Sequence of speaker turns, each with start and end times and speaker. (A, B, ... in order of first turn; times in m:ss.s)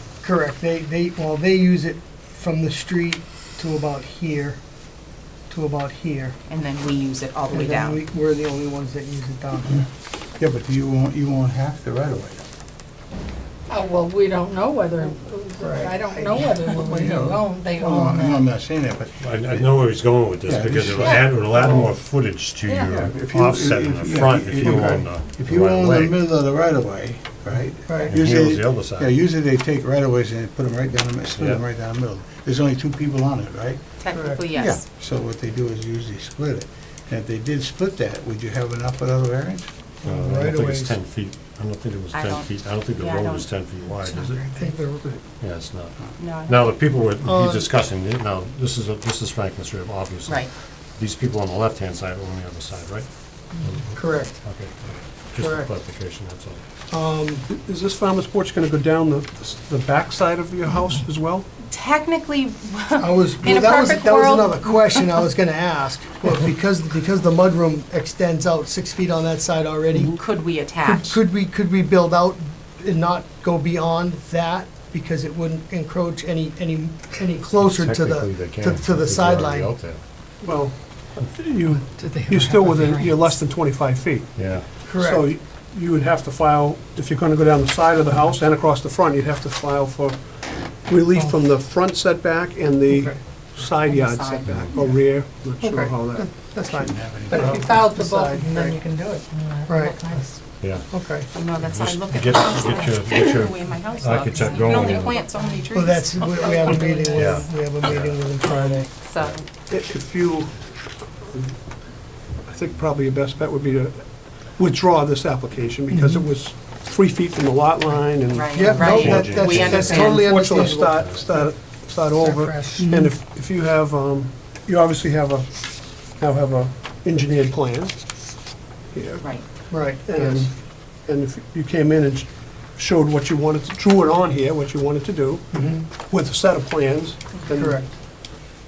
0:00.2-0:04.6 A
0:05.5-0:06.4 A
0:06.5-0:08.0 B
0:07.5-0:09.8 A
0:10.4-0:12.4 C
0:13.7-0:18.5 D
0:15.6-0:16.6 A
0:16.8-0:19.7 C
0:19.2-0:26.3 E
0:20.4-0:21.8 C
0:22.8-0:39.7 C
0:27.8-0:28.1 A
0:28.0-0:29.2 E
0:34.0-0:34.8 B
0:34.1-0:34.4 A
0:40.0-0:40.9 A
0:40.0-0:44.4 E
0:42.1-0:43.5 B
0:44.0-0:44.8 D
0:44.5-0:45.2 A
0:45.4-0:56.6 E
0:46.2-0:46.7 B
0:47.2-0:47.7 A
0:50.2-0:50.5 B
0:53.9-0:54.4 A
0:55.4-0:55.7 A
0:56.9-0:57.4 A
0:57.5-1:01.5 F
1:01.6-1:05.2 B
1:03.0-1:19.7 A
1:10.1-1:11.2 B
1:17.6-1:20.0 E
1:20.4-1:36.3 F
1:21.9-1:23.3 D
1:24.3-1:24.7 E
1:24.8-1:25.3 A
1:32.9-1:33.2 A
1:33.6-1:35.0 B
1:35.6-1:38.8 A
1:36.7-1:37.8 C
1:37.3-1:40.4 D
1:39.7-1:41.3 A
1:40.6-1:41.0 E
1:41.3-1:47.4 B
1:41.6-1:45.2 E
1:44.3-1:45.6 D
1:45.7-1:48.9 A
1:46.3-1:47.1 D
1:47.2-1:48.3 E
1:48.5-1:49.4 B
1:49.6-2:17.8 F
1:55.9-1:56.3 A
1:58.3-2:00.4 B
1:58.5-2:03.2 A
1:58.8-2:00.0 E
2:01.0-2:01.2 E
2:09.2-2:09.4 B
2:09.7-2:10.6 A
2:15.5-2:15.9 A
2:17.5-2:17.9 A